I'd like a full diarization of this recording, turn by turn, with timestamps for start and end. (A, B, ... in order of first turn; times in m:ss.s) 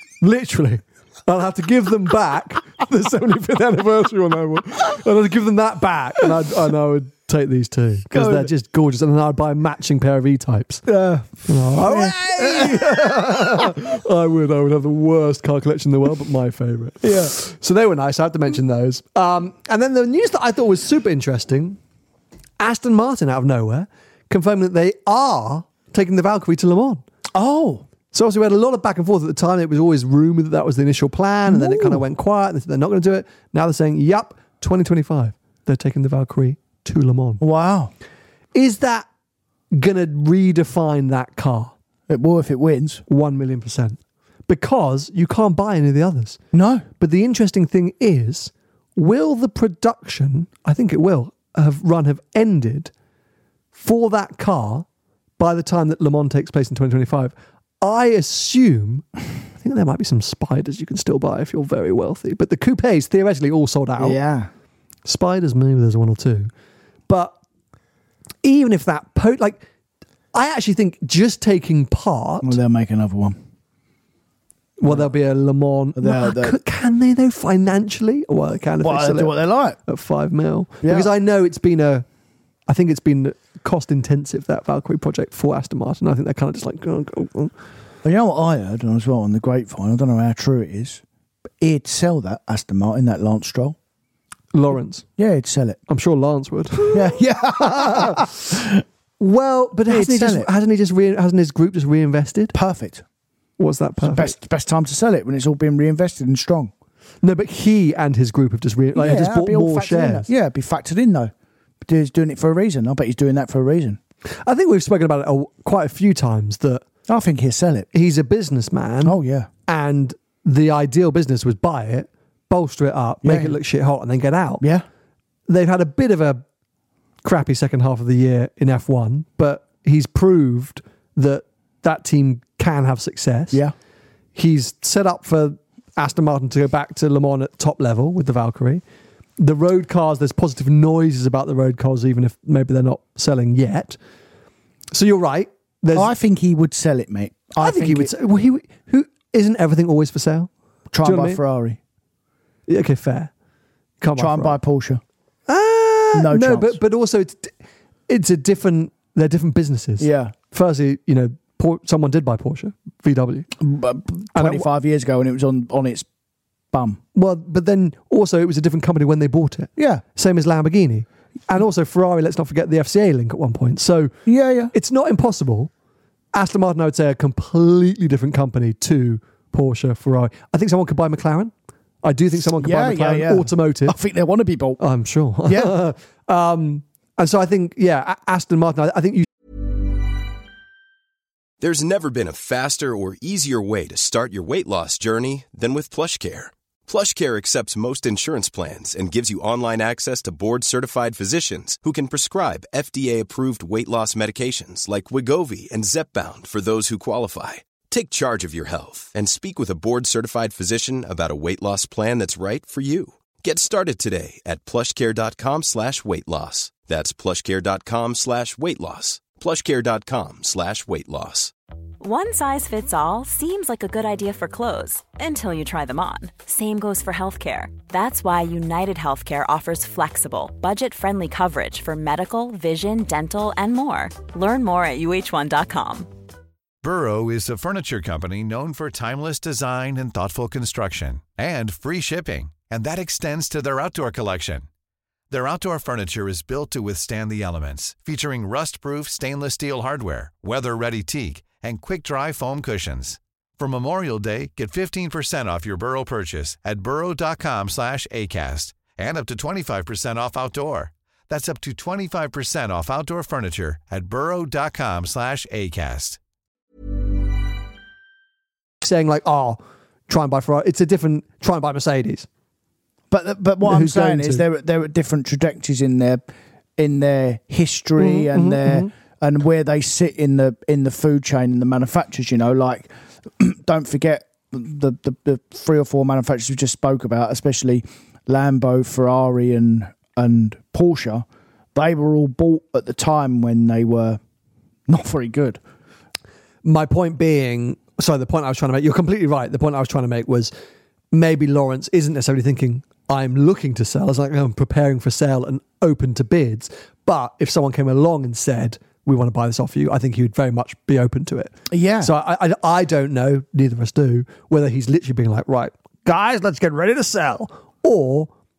0:00.2-0:10.8 A
0:08.1-0:08.5 B
0:10.9-0:13.8 B
0:11.5-0:21.8 A
0:17.0-0:17.3 B
0:22.6-0:27.0 A
0:27.3-0:27.8 B
0:28.1-0:37.4 A
0:31.5-0:32.0 B
0:37.4-0:37.9 B
0:38.5-0:39.0 A
0:39.7-0:41.7 A
0:42.1-0:43.0 B
0:43.1-0:46.4 A
0:46.5-0:46.9 B
0:47.0-0:52.9 A
0:53.7-0:54.8 A
0:55.4-0:59.0 A
0:59.6-1:04.2 A
1:04.0-1:04.5 B
1:05.0-1:06.5 A
1:07.1-1:07.3 A
1:08.4-1:09.6 A
1:10.3-1:12.6 A
1:12.4-1:13.4 B
1:14.8-1:22.0 A
1:16.0-1:16.6 B
1:18.8-1:19.8 B
1:20.8-1:21.1 B
1:22.7-1:27.5 A
1:28.0-1:31.0 B
1:31.6-1:33.8 B
1:34.5-1:35.1 A
1:35.2-1:35.8 B
1:35.9-1:38.3 A
1:36.9-1:38.7 B
1:39.2-1:42.5 A
1:39.9-1:40.5 B
1:42.5-1:43.0 B
1:43.6-1:44.3 A
1:44.0-1:46.7 B
1:47.2-1:50.3 A
1:49.0-1:51.3 B
1:51.8-1:54.0 B
1:54.4-1:56.8 A
1:57.1-1:57.9 B
1:57.9-1:59.2 A
1:59.0-1:59.5 B
1:59.7-2:04.6 A
2:03.2-2:03.6 B
2:04.6-2:04.8 B
2:05.5-2:06.4 A
2:07.2-2:13.6 A
2:14.3-2:18.8 A
2:19.4-2:24.0 A
2:24.9-2:26.1 A
2:25.9-2:28.1 B
2:27.6-2:30.5 A
2:30.9-2:31.8 B
2:31.0-2:31.4 A
2:32.7-2:33.3 A
2:34.0-2:34.6 A
2:34.1-2:35.0 B
2:35.5-2:37.5 A
2:36.1-2:36.8 B
2:38.1-2:43.5 A
2:40.0-2:40.3 B
2:43.6-2:46.0 B
2:44.4-2:44.7 A
2:46.7-2:47.0 B
2:47.1-2:54.1 A
2:49.8-2:50.0 B
2:54.2-2:54.7 B
2:54.7-2:55.7 A
2:56.3-3:01.5 A
3:02.0-3:04.0 A
3:02.6-3:04.8 B
3:04.8-3:09.3 A
3:05.4-3:05.8 B
3:11.6-3:41.5 C
3:42.0-3:56.1 D
3:56.8-4:04.7 E
4:05.3-4:26.2 E
4:28.8-4:32.3 A
4:33.1-4:36.2 B
4:33.6-4:34.4 A
4:36.8-4:54.2 B
4:38.0-4:38.9 A
4:54.9-4:55.6 B
4:56.6-5:00.5 A
5:01.1-5:18.3 A
5:11.7-5:12.1 B